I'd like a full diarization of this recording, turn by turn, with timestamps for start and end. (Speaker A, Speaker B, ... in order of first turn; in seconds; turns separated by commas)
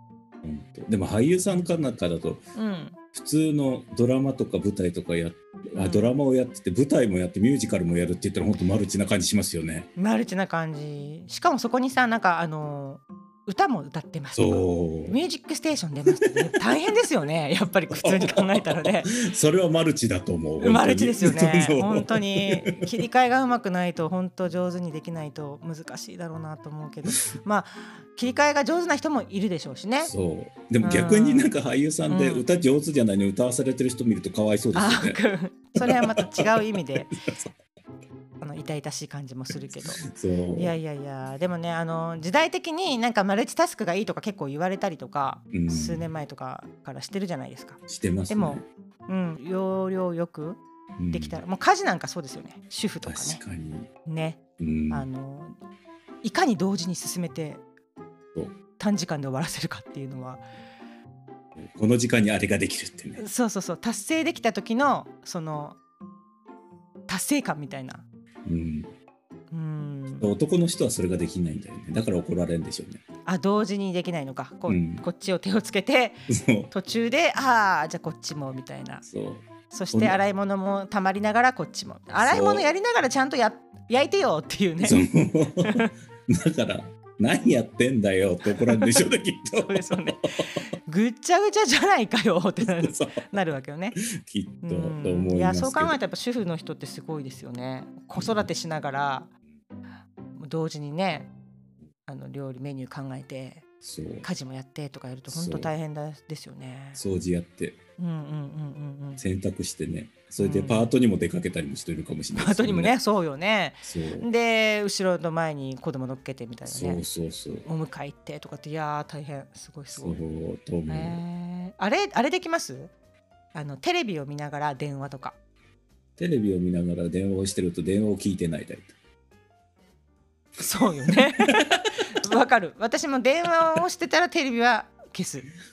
Speaker A: 0.4-2.4, Speaker B: 2.5-3.0, Speaker A: 3.1-9.9, Speaker B: 5.8-6.2, Speaker B: 9.9-19.1, Speaker A: 14.3-15.2, Speaker A: 17.9-22.9, Speaker B: 20.6-30.1, Speaker A: 30.0-35.2, Speaker B: 30.8-31.5, Speaker B: 32.1-32.4, Speaker B: 34.7-37.1, Speaker A: 35.8-37.5, Speaker B: 38.4-53.4, Speaker A: 40.0-40.8, Speaker A: 45.5-46.1, Speaker A: 47.9-48.6, Speaker A: 51.0-51.4, Speaker A: 53.0-53.9, Speaker B: 54.0-54.4, Speaker A: 54.6-55.1, Speaker B: 54.9-55.6, Speaker B: 56.2-57.6, Speaker B: 58.8-60.4, Speaker A: 61.6-63.2, Speaker B: 63.2-65.8, Speaker B: 67.1-68.0, Speaker A: 68.5-68.9, Speaker B: 69.5-70.3, Speaker A: 70.2-73.0, Speaker B: 73.2-79.0, Speaker A: 74.7-75.0, Speaker A: 76.3-76.7, Speaker A: 79.0-80.2, Speaker B: 79.7-85.0, Speaker A: 82.2-82.7, Speaker A: 84.8-90.2, Speaker B: 85.6-85.9, Speaker B: 88.5-89.0, Speaker B: 89.5-90.2, Speaker B: 90.8-94.0, Speaker A: 92.6-93.1, Speaker A: 94.0-96.0, Speaker B: 94.6-99.3, Speaker A: 98.2-98.5, Speaker B: 100.3-101.3, Speaker B: 102.1-103.6, Speaker A: 103.8-104.3, Speaker B: 104.2-107.0, Speaker A: 105.3-105.7, Speaker A: 107.0-107.8, Speaker B: 108.0-109.2, Speaker A: 109.2-112.9, Speaker B: 110.4-110.9, Speaker B: 112.3-117.0, Speaker A: 113.8-114.3, Speaker A: 116.7-117.7, Speaker B: 117.6-120.2, Speaker A: 119.9-121.2, Speaker B: 120.9-122.9, Speaker B: 123.5-125.3, Speaker A: 126.2-128.9, Speaker B: 130.6-135.5